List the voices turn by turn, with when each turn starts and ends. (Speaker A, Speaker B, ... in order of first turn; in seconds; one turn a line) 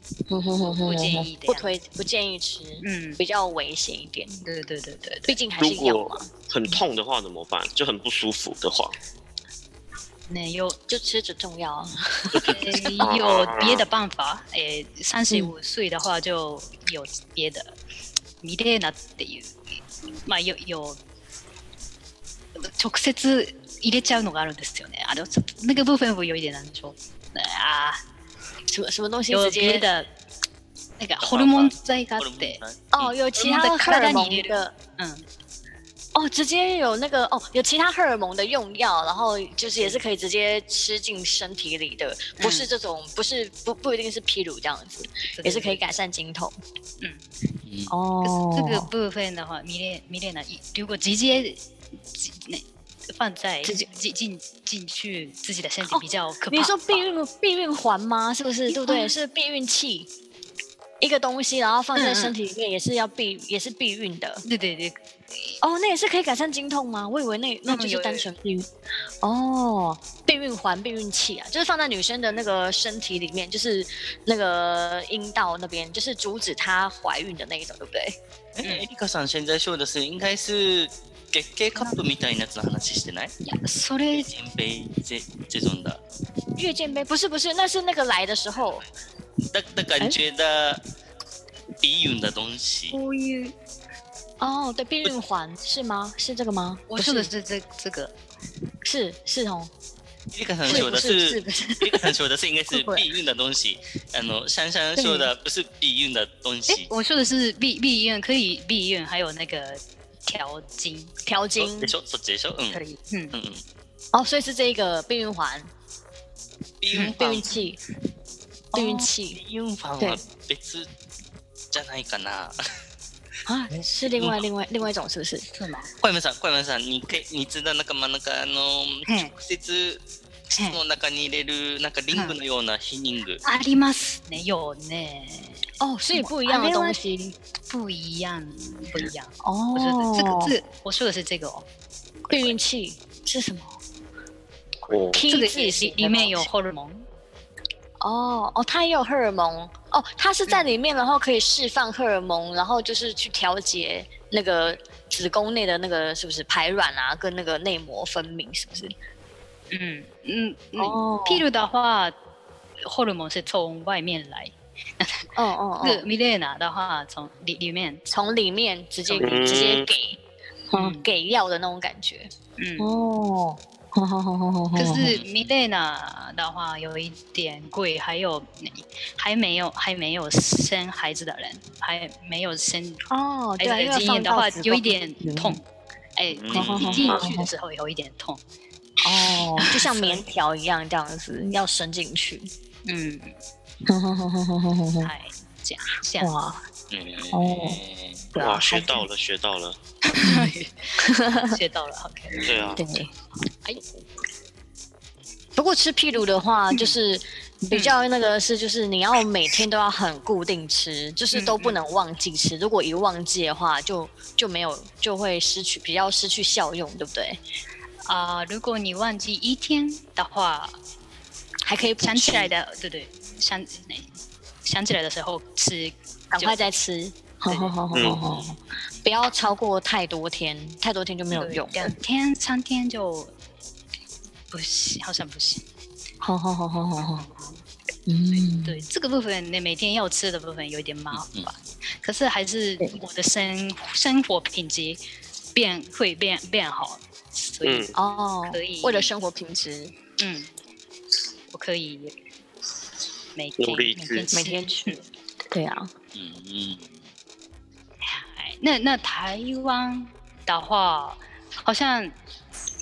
Speaker A: 0.3-4.4
Speaker B: 0.8-1.7
Speaker B: 2.8-3.2
Speaker B: 4.4-5.4
Speaker A: 5.3-6.3
Speaker C: 5.6-8.9
Speaker B: 10.3-10.8
Speaker A: 10.9-12.9
Speaker C: 12.3-13.9
Speaker B: 12.4-17.8
Speaker B: 18.4-19.6
Speaker B: 20.3-21.0
Speaker B: 22.6-28.0
Speaker A: 28.7-29.9
Speaker B: 29.3-30.1
Speaker B: 31.0-32.6
Speaker D: 31.2-33.2
Speaker A: 32.9-34.7
Speaker B: 33.4-35.2
Speaker A: 36.1-46.5
Speaker B: 39.6-40.0
Speaker B: 42.4-42.7
Speaker B: 45.3-45.9
Speaker D: 47.7-47.9
Speaker A: 47.9-48.9
Speaker B: 48.2-57.0
Speaker A: 53.6-53.9
Speaker A: 55.9-60.1
Speaker B: 58.7-59.1
Speaker A: 61.0-64.4
Speaker B: 62.0-62.4
Speaker B: 64.5-65.6
Speaker A: 65.6-68.7
Speaker B: 67.7-68.3
Speaker A: 69.2-78.2
Speaker D: 78.6-83.3
Speaker B: 81.8-82.0
Speaker B: 83.4-84.3
Speaker D: 84.1-86.0
Speaker A: 86.6-88.8
Speaker D: 89.5-90.8
Speaker D: 91.8-93.0
Speaker B: 92.9-93.5
Speaker A: 94.4-97.3
Speaker B: 96.9-98.1
Speaker A: 98.8-99.7
Speaker D: 100.3-106.9
Speaker A: 100.7-102.1
Speaker B: 100.7-101.0
Speaker B: 102.7-103.0
Speaker A: 105.0-105.2
Speaker B: 106.7-111.1
Speaker A: 111.3-111.9
Speaker D: 111.6-112.8
Speaker B: 112.7-113.3
Speaker D: 113.3-113.6
Speaker A: 114.1-115.7
Speaker D: 116.8-117.6
Speaker B: 116.9-117.2
Speaker A: 116.9-117.8
Speaker B: 118.7-119.1
Speaker A: 118.7-119.4
Speaker D: 119.3-120.9
Speaker D: 121.7-122.6
Speaker A: 123.5-125.5
Speaker D: 123.7-124.4
Speaker B: 125.5-125.9
Speaker D: 126.0-133.4
Speaker B: 129.1-129.3
Speaker B: 133.4-137.0
Speaker A: 135.8-137.3
Speaker B: 137.7-141.7
Speaker A: 139.4-140.6
Speaker B: 142.3-142.6
Speaker A: 142.3-143.8
Speaker C: 144.9-145.2
Speaker A: 145.1-146.5
Speaker B: 145.3-147.1
Speaker A: 148.0-158.9
Speaker B: 159.7-162.2
Speaker A: 160.8-161.5
Speaker B: 162.8-165.3
Speaker A: 165.3-166.1
Speaker B: 165.8-168.0
Speaker A: 168.1-170.2
Speaker C: 169.2-169.9
Speaker A: 170.7-175.1
Speaker B: 170.8-171.1
Speaker B: 172.6-172.9
Speaker B: 174.8-183.1
Speaker D: 175.0-175.5
Speaker A: 183.1-185.6
Speaker B: 183.6-185.7
Speaker B: 186.2-188.4
Speaker D: 186.3-187.2
Speaker A: 186.5-187.5
Speaker C: 187.0-187.3
Speaker A: 189.0-192.5
Speaker B: 189.6-190.2
Speaker B: 192.9-193.3
Speaker A: 193.9-195.1
Speaker B: 195.0-196.3
Speaker A: 196.2-196.6
Speaker D: 196.9-198.3
Speaker A: 197.3-197.8
Speaker A: 198.3-199.1
Speaker C: 198.4-199.8
Speaker B: 200.1-202.7
Speaker A: 200.2-201.6
Speaker C: 202.4-202.8
Speaker A: 202.7-203.1
Speaker A: 205.6-217.4
Speaker B: 206.7-207.0
Speaker B: 211.3-211.8
Speaker B: 218.1-220.8
Speaker A: 221.7-222.5
Speaker B: 222.0-224.1
Speaker B: 224.6-226.7
Speaker A: 226.3-231.9
Speaker B: 227.5-227.8
Speaker C: 227.9-228.3
Speaker D: 228.0-228.4
Speaker B: 231.3-233.3
Speaker B: 234.5-235.6
Speaker A: 236.2-237.3
Speaker B: 237.0-237.6
Speaker A: 238.1-238.8
Speaker B: 238.3-245.0
Speaker D: 241.1-241.5
Speaker B: 245.6-247.9
Speaker C: 247.6-247.9
Speaker A: 247.9-249.9
Speaker B: 248.5-249.1
Speaker B: 250.2-250.5
Speaker B: 251.5-252.1
Speaker B: 253.3-255.0
Speaker C: 253.6-254.3
Speaker A: 254.3-255.9
Speaker D: 256.1-257.1
Speaker B: 258.0-262.2